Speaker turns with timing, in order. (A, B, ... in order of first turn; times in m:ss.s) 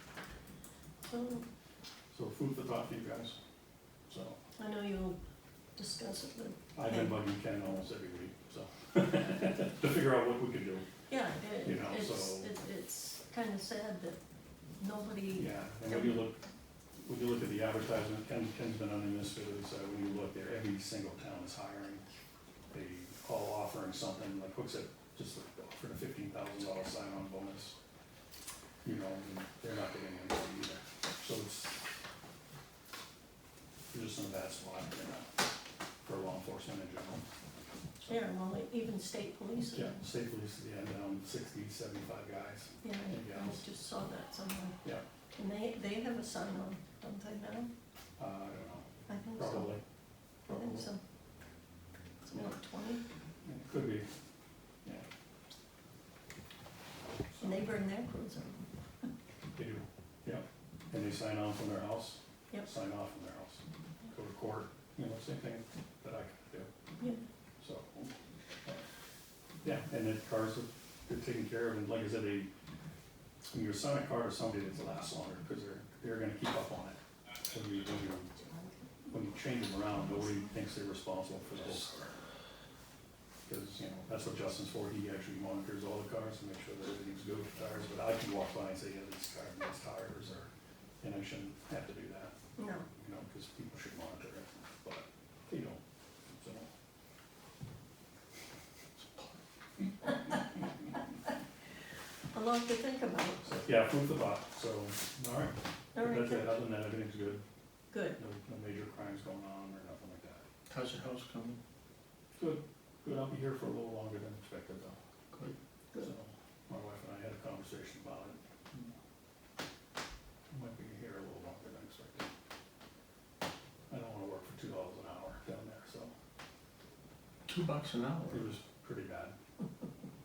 0:01.0-0:01.4 A
0:02.1-0:03.4 B
0:04.1-0:04.4 B
0:04.6-0:05.2 A
0:05.8-0:07.2 A
0:06.8-0:10.8 B
0:11.1-0:14.2 A
0:11.6-0:12.5 B
0:14.8-0:16.2 A
0:15.4-0:16.4 B
0:17.0-0:22.0 B
0:22.7-0:27.8 B
0:28.8-0:31.8 B
0:33.9-0:35.5 B
0:36.0-0:37.2 B
0:38.1-0:40.0 A
0:39.7-0:43.6 B
0:42.8-0:44.8 A
0:45.3-0:47.7 A
0:48.2-0:49.8 B
0:49.1-0:49.8 A
0:50.5-0:50.9 B
0:50.5-0:51.0 A
0:52.2-0:53.0 A
0:53.4-0:54.1 B
0:57.3-0:57.7 B
0:57.4-0:58.6 A
0:59.6-1:06.7 B
1:07.6-1:08.1 B
1:09.6-1:12.5 B
1:13.5-1:18.3 B
1:18.4-1:18.8 A
1:19.1-1:22.1 B
1:23.5-1:30.5 B
1:31.0-1:32.4 B
1:32.6-1:32.9 A
1:33.0-1:36.7 B
1:42.3-1:43.5 A
1:43.4-1:47.4 B
1:46.0-1:46.6 A
1:47.9-1:48.2 A
1:48.1-1:50.4 B
1:50.7-1:51.6 C
1:52.4-1:55.0 B
1:56.0-1:58.9 B
2:00.5-2:02.3 B
2:03.9-2:06.1 B
2:07.5-2:08.5 C
2:08.3-2:09.3 B